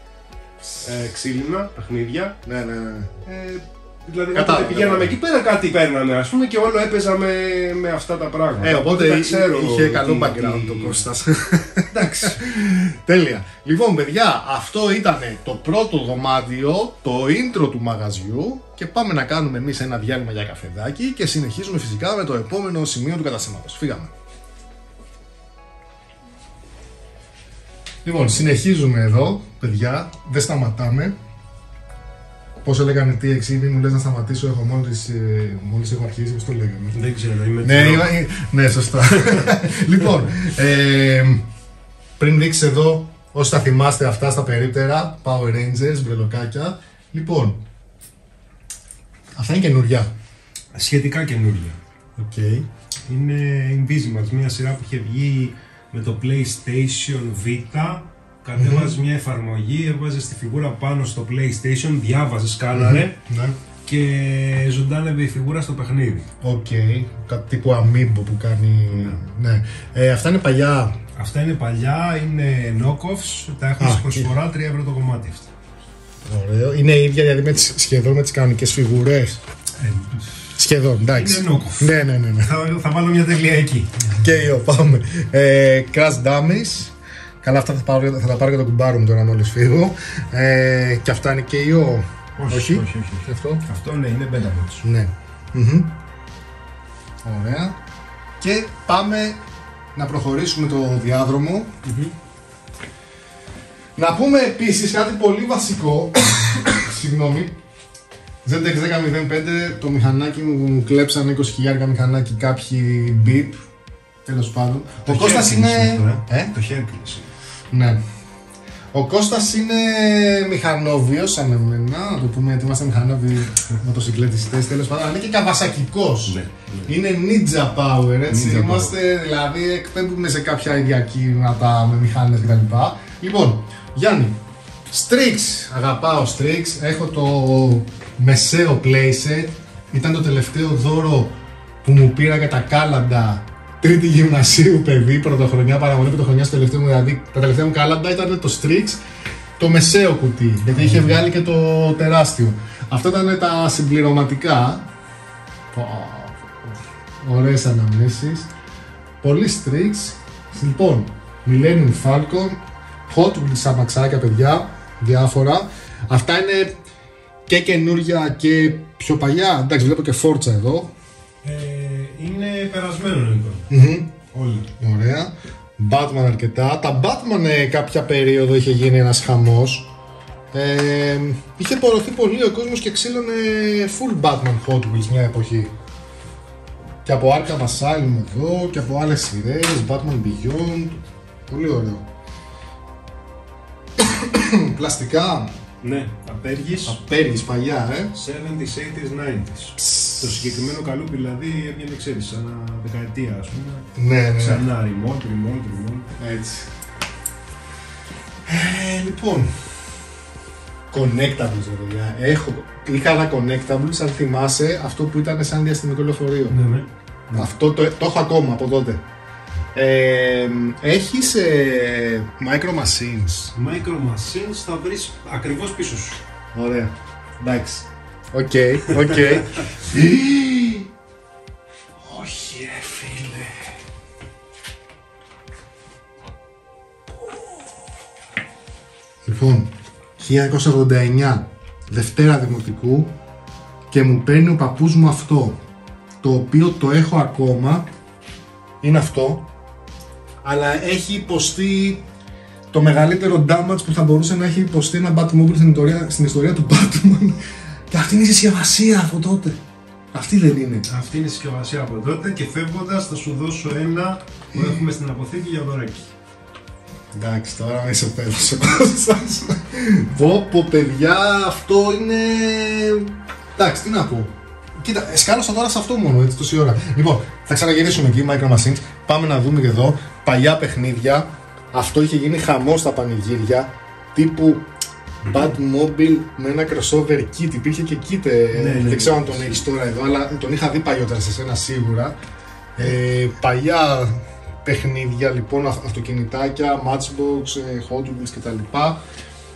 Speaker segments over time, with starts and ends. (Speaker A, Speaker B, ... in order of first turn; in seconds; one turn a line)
Speaker A: 0.8-2.4
Speaker B: 2.4-3.1
Speaker A: 3.2-11.0
Speaker B: 4.3-5.2
Speaker B: 8.6-24.1
Speaker A: 11.9-12.4
Speaker B: 28.0-31.2
Speaker B: 32.6-36.9
Speaker A: 36.9-38.2
Speaker B: 37.6-41.5
Speaker A: 39.1-39.5
Speaker B: 42.2-47.6
Speaker B: 49.4-50.1
Speaker A: 50.7-51.8
Speaker B: 52.1-52.7
Speaker A: 53.1-63.2
Speaker B: 58.6-59.0
Speaker B: 62.7-63.6
Speaker A: 63.8-66.3
Speaker B: 66.4-71.0
Speaker A: 68.9-69.2
Speaker A: 71.2-75.5
Speaker B: 73.8-74.3
Speaker B: 76.2-79.4
Speaker A: 79.8-80.3
Speaker B: 80.6-82.6
Speaker A: 81.1-84.1
Speaker B: 84.1-93.6
Speaker A: 92.4-94.8
Speaker B: 94.8-95.9
Speaker B: 97.2-97.8
Speaker B: 98.4-99.4
Speaker B: 99.9-101.7
Speaker A: 101.8-102.1
Speaker B: 104.0-107.6
Speaker B: 108.4-113.6
Speaker B: 114.2-116.5
Speaker A: 115.0-117.3
Speaker B: 117.7-118.0
Speaker B: 118.9-149.0
Speaker A: 126.2-126.9
Speaker A: 128.3-128.9
Speaker B: 149.6-154.9
Speaker A: 150.7-151.2
Speaker B: 155.7-158.5
Speaker B: 159.2-166.8
Speaker B: 167.5-170.9
Speaker A: 171.4-173.7
Speaker B: 173.7-174.1
Speaker A: 174.3-174.7
Speaker B: 174.8-179.9
Speaker B: 180.5-185.7
Speaker B: 187.0-192.1
Speaker B: 194.0-195.6
Speaker A: 195.8-197.0
Speaker B: 196.8-198.1
Speaker A: 198.1-206.2
Speaker B: 199.9-200.3
Speaker B: 203.9-204.6
Speaker B: 206.2-206.7
Speaker B: 208.4-209.7
Speaker B: 210.9-216.6
Speaker A: 216.5-217.4
Speaker B: 217.3-219.0
Speaker B: 219.7-223.5
Speaker A: 223.5-226.2
Speaker B: 226.5-230.9
Speaker B: 232.0-233.7
Speaker B: 239.2-243.2
Speaker B: 243.9-245.6
Speaker B: 246.2-247.9
Speaker B: 248.8-249.5
Speaker B: 250.4-252.0
Speaker B: 252.7-259.6
Speaker B: 260.1-260.9
Speaker A: 260.9-266.1
Speaker B: 264.5-264.8
Speaker B: 267.1-284.7
Speaker B: 285.2-292.2
Speaker A: 288.5-289.6
Speaker B: 292.8-299.0